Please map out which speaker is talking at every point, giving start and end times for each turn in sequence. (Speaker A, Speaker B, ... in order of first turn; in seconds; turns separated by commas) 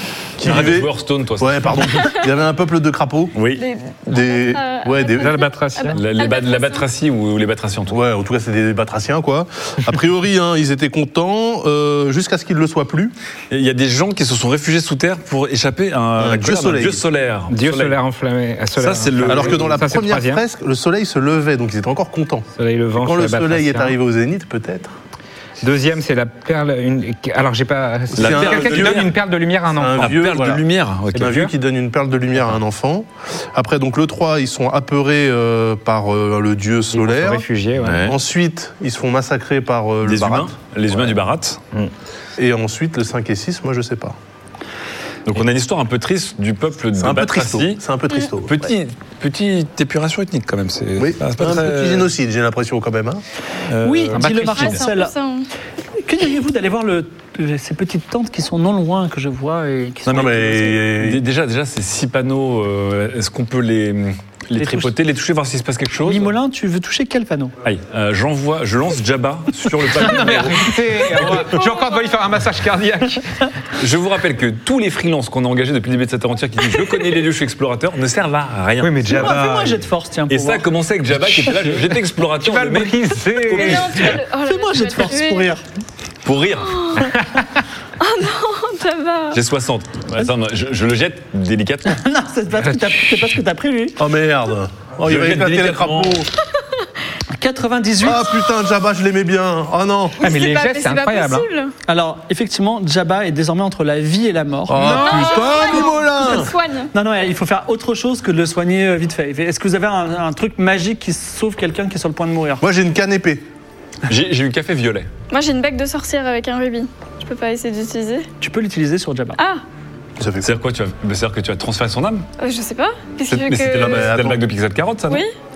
Speaker A: 0.4-2.2, Speaker B: 0.4-3.4, Speaker A: 3.3-3.6, Speaker C: 3.5-6.8, Speaker B: 4.1-5.4, Speaker D: 5.2-6.0, Speaker A: 5.9-8.0, Speaker B: 7.9-13.1, Speaker A: 13.5-17.9, Speaker B: 16.2-17.0, Speaker D: 17.5-20.4, Speaker A: 18.8-19.8, Speaker B: 19.2-24.9, Speaker D: 22.6-23.9, Speaker D: 25.6-30.1, Speaker B: 28.1-29.1, Speaker A: 28.1-29.1, Speaker B: 29.7-30.6, Speaker A: 30.0-31.5, Speaker B: 31.1-37.4, Speaker D: 36.9-38.1, Speaker A: 37.8-38.2, Speaker B: 38.0-40.5, Speaker A: 40.0-41.6, Speaker B: 42.4-44.1, Speaker A: 45.2-47.8, Speaker B: 47.0-48.5, Speaker A: 48.4-52.1, Speaker B: 51.0-53.2, Speaker A: 53.7-54.7, Speaker E: 53.8-55.1, Speaker D: 54.1-54.8, Speaker C: 54.5-55.5, Speaker E: 56.0-60.8, Speaker A: 60.1-60.3, Speaker B: 60.1-61.2, Speaker A: 61.0-66.3, Speaker E: 64.6-64.9, Speaker E: 66.0-67.5, Speaker A: 67.6-71.5, Speaker D: 70.0-73.4, Speaker C: 71.5-72.1, Speaker A: 73.8-79.4, Speaker D: 78.8-79.8, Speaker E: 79.1-80.7, Speaker A: 80.3-84.2, Speaker E: 81.3-81.8, Speaker D: 82.4-83.9, Speaker C: 83.5-85.5, Speaker E: 84.4-85.6, Speaker A: 86.2-87.1, Speaker C: 86.7-87.1, Speaker C: 88.0-89.4, Speaker A: 89.3-92.0, Speaker E: 91.9-94.0, Speaker D: 92.6-93.3, Speaker B: 94.0-96.3, Speaker A: 95.0-96.3, Speaker E: 97.3-98.3, Speaker B: 98.0-100.2, Speaker C: 100.2-101.7, Speaker D: 100.2-101.5, Speaker E: 101.8-105.0, Speaker B: 104.7-106.5, Speaker D: 104.8-105.6, Speaker C: 105.0-106.9, Speaker E: 106.9-112.6, Speaker B: 112.6-113.4, Speaker A: 114.1-115.1, Speaker C: 115.3-118.3, Speaker E: 118.4-119.4, Speaker C: 119.4-119.6, Speaker B: 120.2-120.5, Speaker A: 120.4-122.3, Speaker C: 122.4-124.1, Speaker A: 123.3-125.2, Speaker B: 123.8-124.4, Speaker C: 125.1-125.3